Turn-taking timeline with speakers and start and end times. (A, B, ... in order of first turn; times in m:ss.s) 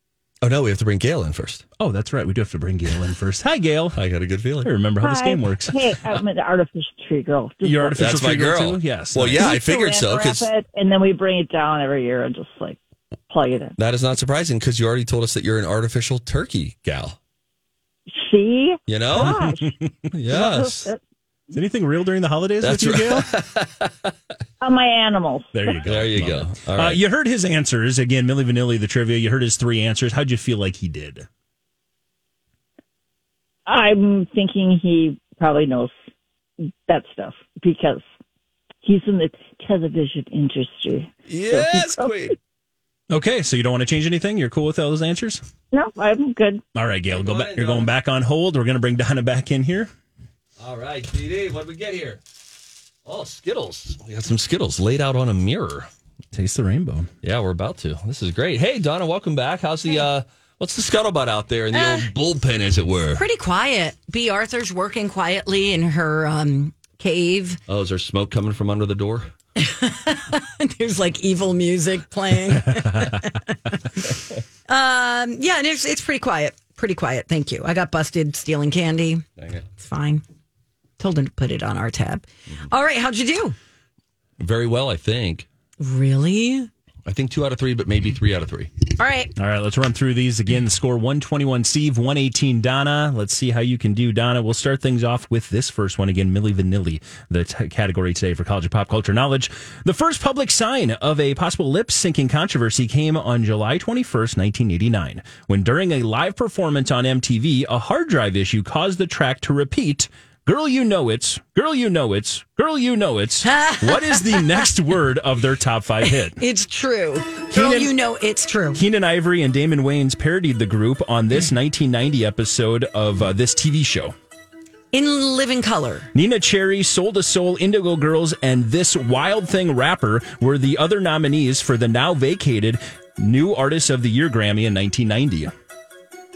0:00.4-0:01.6 A
0:01.8-0:04.0 B
0:03.9-0:04.7 A
0:04.6-0:05.9 B
0:05.0-0:08.2 C
0:07.6-0:09.6 B
0:08.0-0:10.5 A
0:09.3-0:12.8 C
0:13.3-0:13.8 C
0:13.8-0:17.2 A
0:18.1-0:19.7 C
0:18.9-0:19.4 A
0:19.1-0:20.1 B
0:20.1-0:20.9 A
0:20.3-0:21.0 C
0:21.5-0:23.3 B
0:22.6-0:24.1 A
0:24.6-0:25.8 C
0:25.5-0:31.3 B
0:25.8-0:27.0 A
0:33.7-0:35.9 C
0:36.9-0:38.0 C
0:38.8-0:42.2 C
0:41.3-0:42.4 A
0:43.1-0:45.4 B
0:45.7-0:46.6 C
0:46.8-0:49.9 B
0:47.1-0:47.9 A
0:50.6-0:52.2 A
0:53.0-0:55.9 A
0:56.3-0:57.1 B
0:57.2-1:03.2 A
1:01.7-1:02.1 D
1:03.2-1:07.6 D
1:07.7-1:09.3 A
1:09.6-1:14.0 D
1:14.7-1:19.2 D
1:19.4-1:19.6 A
1:19.8-1:20.2 D
1:21.0-1:23.6 D
1:24.4-1:25.5 A
1:25.8-1:26.7 D
1:27.1-1:28.7 A
1:29.0-1:29.3 D
1:29.4-1:56.4 B
1:53.4-1:54.6 D
1:56.1-1:58.8 D
1:57.5-1:57.9 B
1:58.8-2:04.1 B
2:04.9-2:06.1 D
2:06.1-2:15.5 B